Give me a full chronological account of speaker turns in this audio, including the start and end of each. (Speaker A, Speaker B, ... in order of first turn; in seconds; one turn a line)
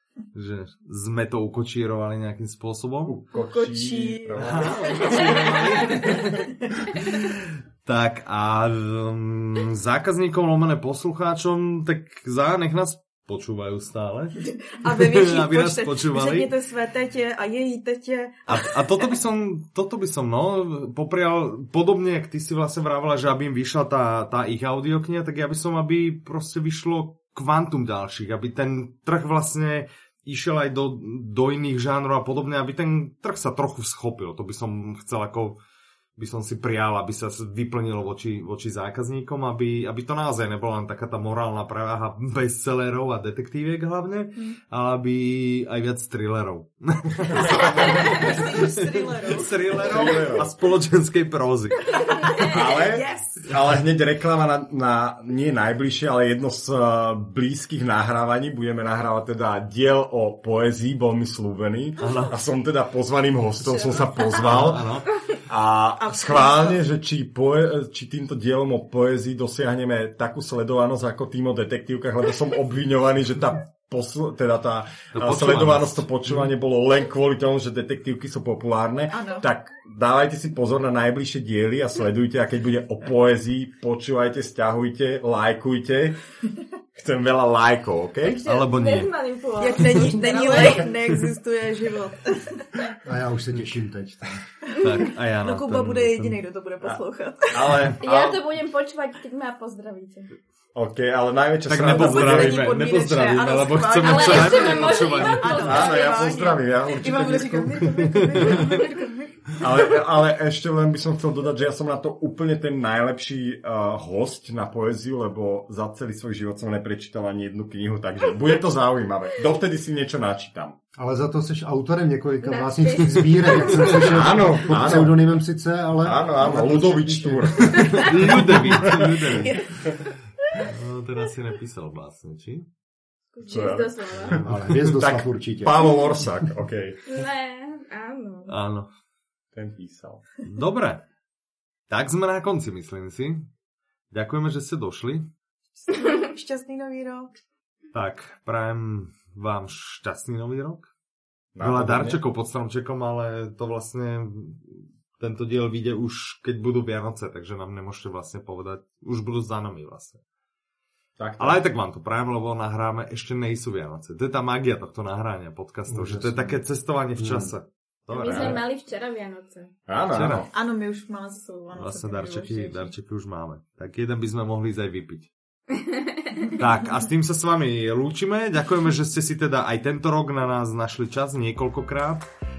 Speaker A: 0.3-3.2
Speaker B: 3.0-5.3
Speaker C: 3.3-6.8
Speaker A: 4.4-16.5
Speaker C: 14.4-19.1
Speaker A: 18.5-35.6
Speaker A: 36.2-52.1
Speaker C: 47.3-50.4
Speaker B: 47.4-48.1
Speaker B: 49.8-50.5
Speaker C: 51.9-53.6
Speaker D: 52.1-52.6
Speaker B: 52.4-86.3
Speaker A: 62.0-62.4
Speaker A: 64.3-65.1
Speaker C: 66.0-66.8
Speaker A: 75.1-76.5
Speaker C: 79.1-79.5
Speaker B: 86.9-88.4
Speaker D: 88.2-91.1
Speaker A: 88.4-89.1
Speaker C: 89.6-92.7
Speaker E: 93.0-94.4
Speaker C: 94.7-98.0
Speaker A: 94.8-96.4
Speaker B: 96.8-98.5
Speaker D: 98.0-100.3
Speaker B: 100.7-102.7
Speaker A: 101.7-105.7
Speaker C: 101.8-110.0
Speaker D: 104.0-106.3
Speaker B: 105.6-107.9
Speaker A: 107.9-108.8
Speaker B: 109.6-120.8
Speaker E: 121.0-128.0
Speaker D: 122.4-124.1
Speaker B: 123.9-125.3
Speaker B: 126.0-129.9
Speaker A: 127.6-132.7
Speaker C: 129.4-129.8
Speaker D: 133.3-134.4
Speaker B: 133.4-137.1
Speaker E: 134.2-136.5
Speaker D: 137.1-138.6
Speaker A: 138.5-138.9
Speaker B: 139.5-140.2
Speaker A: 140.4-141.1
Speaker A: 141.9-143.5
Speaker A: 144.1-145.3
Speaker C: 145.8-147.3
Speaker A: 147.9-150.9
Speaker B: 151.5-152.2
Speaker A: 151.6-160.2
Speaker B: 161.2-161.6
Speaker A: 161.4-168.6
Speaker E: 165.9-166.6
Speaker E: 167.1-167.5
Speaker D: 168.1-169.7
Speaker B: 168.2-168.6
Speaker B: 169.9-170.5
Speaker A: 170.1-170.5
Speaker C: 170.5-172.9
Speaker A: 171.7-175.3
Speaker D: 175.7-176.5
Speaker A: 176.5-182.3